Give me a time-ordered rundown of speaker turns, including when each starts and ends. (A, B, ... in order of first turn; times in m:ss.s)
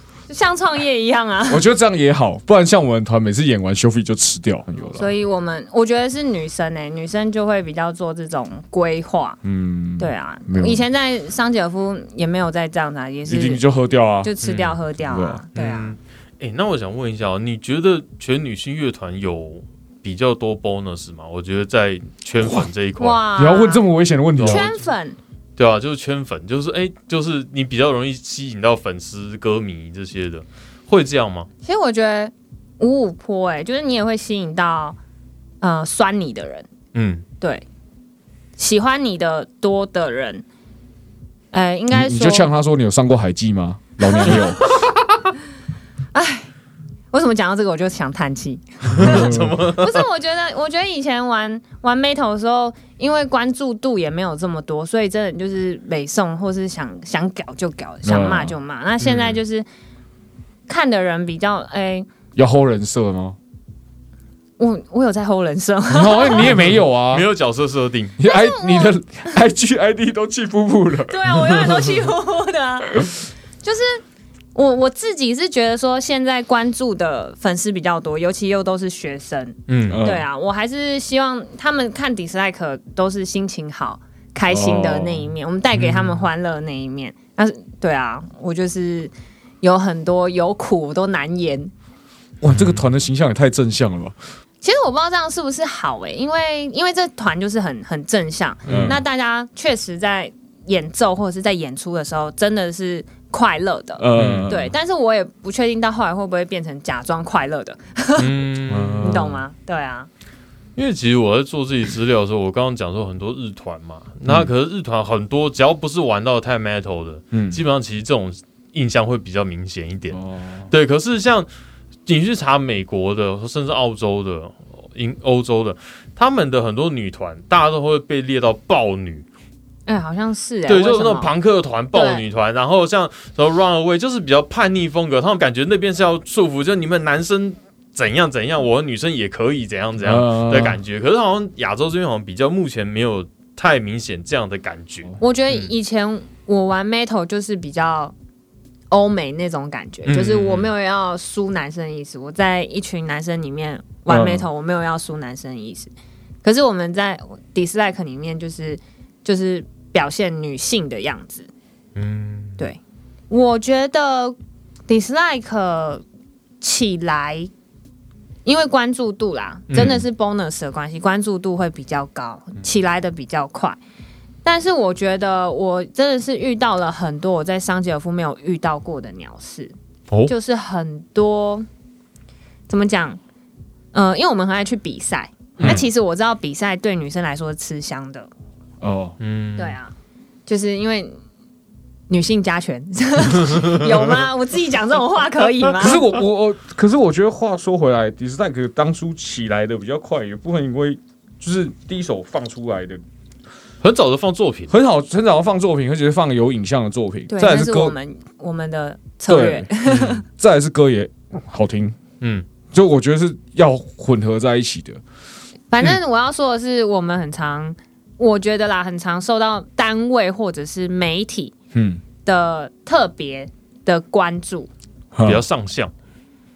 0:00.3-0:01.7 A
0:01.5-0:05.1 B
0:04.9-0:09.4 A
0:09.4-0:10.8 B
0:10.0-0:13.6 A
0:13.3-0:14.3 B
0:14.2-0:15.9 A
0:14.4-0:14.8 C
0:15.0-0:15.4 B
0:15.6-0:23.2 C
0:22.4-0:22.7 B
0:23.0-0:23.9 A
0:23.4-0:24.7 B
0:24.4-0:24.8 C
0:24.5-0:25.2 A
0:25.6-0:31.5 C
0:31.6-0:35.0 A
0:35.6-0:36.7 A
0:36.9-0:37.2 C
0:38.6-0:40.4 A
0:41.5-0:42.5 A
0:41.9-0:44.9 B
0:44.0-0:44.4 A
0:46.1-0:46.5 A
0:47.1-0:59.7 A
0:48.9-0:50.0 C
0:49.0-0:49.6 B
0:58.0-0:58.6 B
0:59.0-0:59.4 C
1:00.7-1:02.1 A
1:02.4-1:03.4 B
1:04.6-1:06.6 A
1:05.9-1:07.3 B
1:06.3-1:08.2 C
1:08.2-1:11.5 B
1:08.2-1:09.0 A
1:11.1-1:14.0 A
1:14.6-1:31.7 A
1:19.7-1:20.0 C
1:19.9-1:20.3 B
1:24.5-1:25.3 B
1:25.8-1:26.3 C
1:32.4-1:34.2 B
1:32.5-1:32.8 C
1:34.6-1:48.3 A
1:38.7-1:39.0 B
1:38.7-1:39.0 C
1:44.0-1:44.7 B
1:44.2-1:44.5 C
1:48.2-1:49.3 C
1:48.7-1:49.4 B
1:49.0-1:50.1 A
1:50.8-2:01.5 C
1:57.3-1:57.6 B
2:00.1-2:00.7 B
2:02.1-2:09.3 C
2:09.9-2:11.3 A
2:10.7-2:25.7 C
2:11.9-2:12.2 A
2:20.0-2:20.8 B
2:25.2-2:28.2 A
2:28.9-2:35.9 A
2:30.1-2:30.7 C
2:34.1-2:34.4 B
2:36.4-2:41.5 A
2:42.0-2:42.6 C
2:42.6-2:44.4 A
2:44.9-2:46.0 A
2:46.6-2:47.5 A
2:48.4-2:53.8 A
2:49.7-2:50.0 C
2:54.4-2:59.7 A
3:00.3-3:01.7 A
3:02.7-3:03.2 A
3:03.9-3:08.3 A
3:05.6-3:05.9 B
3:08.8-3:09.2 B
3:09.2-3:09.8 C
3:09.6-3:09.9 A
3:10.5-3:11.2 A
3:12.1-3:16.0 A
3:13.5-3:13.8 C
3:15.8-3:23.0 B
3:23.8-3:24.7 C
3:24.7-3:28.0 B
3:27.3-3:30.2 A
3:29.3-3:32.0 B
3:32.2-3:32.5 C
3:32.7-3:35.0 B
3:35.7-3:41.5 A
3:41.7-3:42.0 B
3:42.2-3:44.7 A
3:45.1-3:45.4 B
3:45.2-3:45.9 C